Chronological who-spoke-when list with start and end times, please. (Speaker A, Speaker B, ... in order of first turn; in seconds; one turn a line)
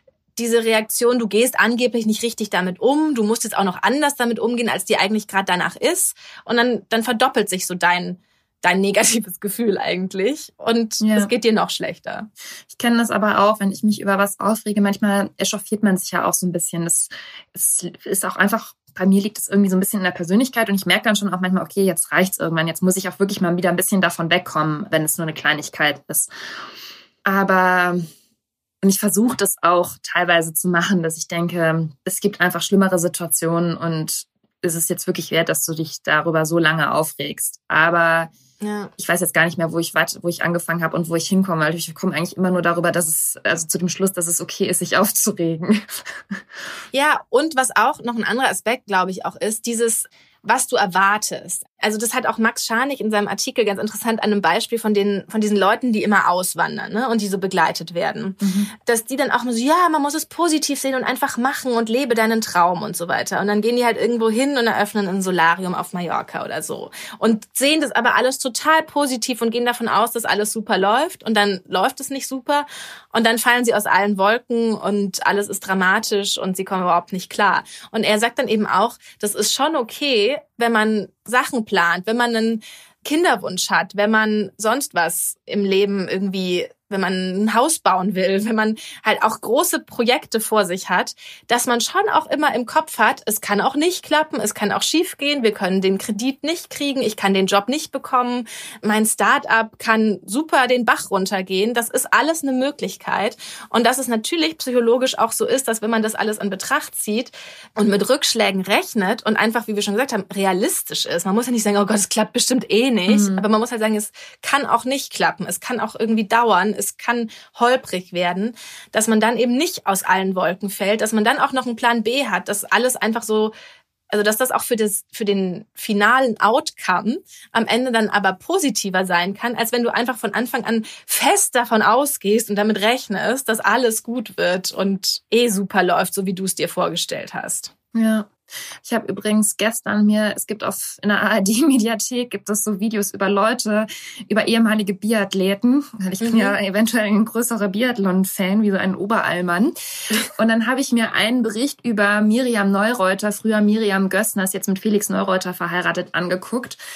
Speaker A: 0.3-12.3
Speaker B: 11.0-11.3
Speaker B: 12.7-26.3
Speaker B: 27.2-28.1
Speaker B: 28.8-38.3
Speaker A: 38.6-38.9
Speaker B: 39.0-46.4
Speaker A: 46.9-123.5
Speaker B: 58.4-58.7
Speaker B: 113.1-113.4
Speaker A: 124.1-137.7
Speaker B: 137.9-138.3
Speaker B: 138.8-149.7
Speaker A: 146.2-146.6
Speaker B: 150.3-156.8